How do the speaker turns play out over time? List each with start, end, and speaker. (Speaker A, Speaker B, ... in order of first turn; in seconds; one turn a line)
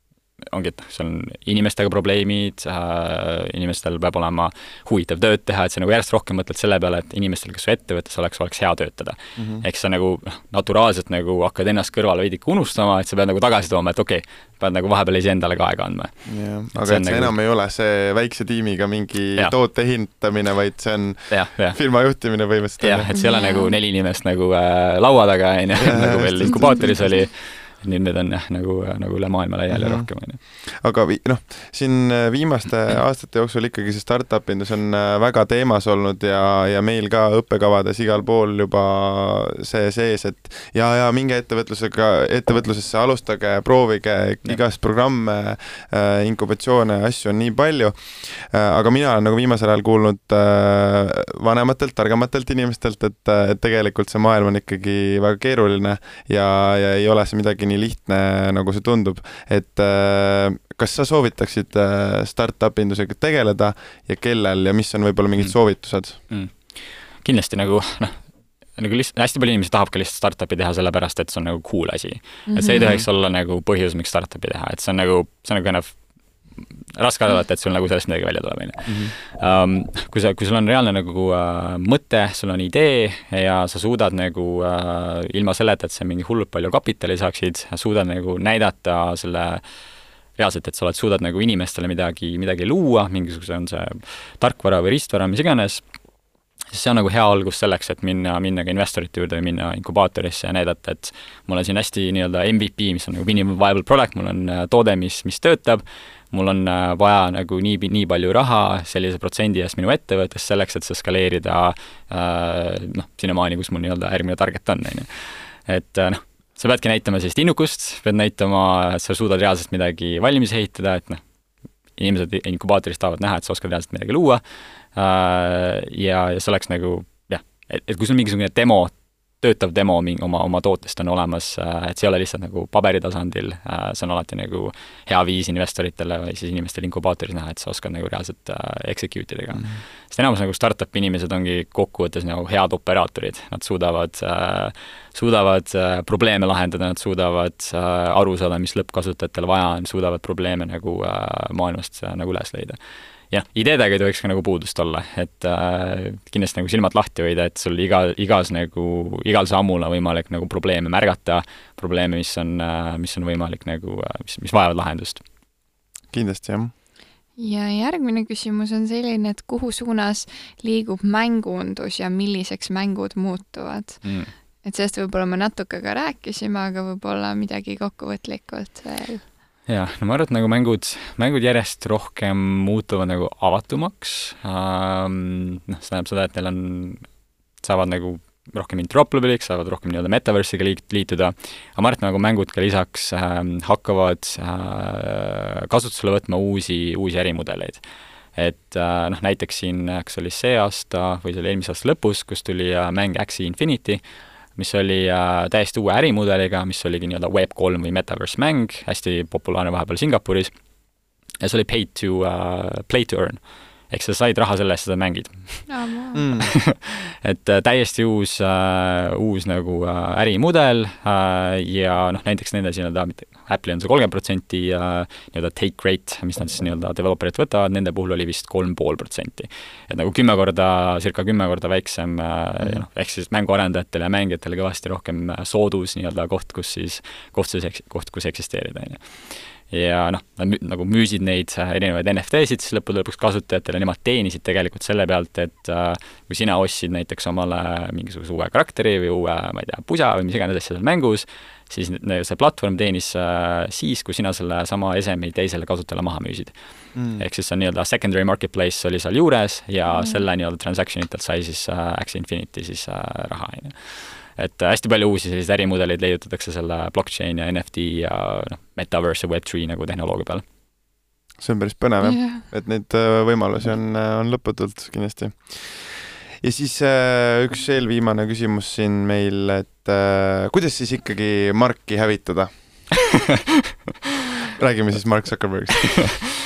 Speaker A: 0.4-17.4
Speaker B: 9.4-9.6
Speaker B: 16.3-23.1
Speaker A: 21.3-30.4
Speaker C: 23.1-23.8
Speaker B: 25.8-27.2
Speaker C: 26.5-27.2
Speaker B: 29.7-66.2
Speaker A: 65.4-89.7
Speaker C: 72.5-73.0
Speaker B: 72.7-73.1
Speaker B: 78.9-79.1
Speaker A: 90.3-95.8
Speaker A: 96.7-121.2
Speaker A: 121.9-152.8
Speaker A: 153.3-165.2
Speaker B: 166.1-166.7
Speaker C: 167.4-179.3
Speaker A: 174.0-174.3
Speaker A: 179.7-210.6
Speaker A: 211.4-215.8
Speaker C: 215.7-216.3
Speaker B: 216.2-216.6
Speaker A: 216.4-270.4
Speaker B: 232.6-232.9
Speaker B: 256.9-257.2
Speaker C: 259.9-260.2
Speaker B: 271.4-283.0
Speaker C: 272.0-272.4
Speaker B: 284.6-286.3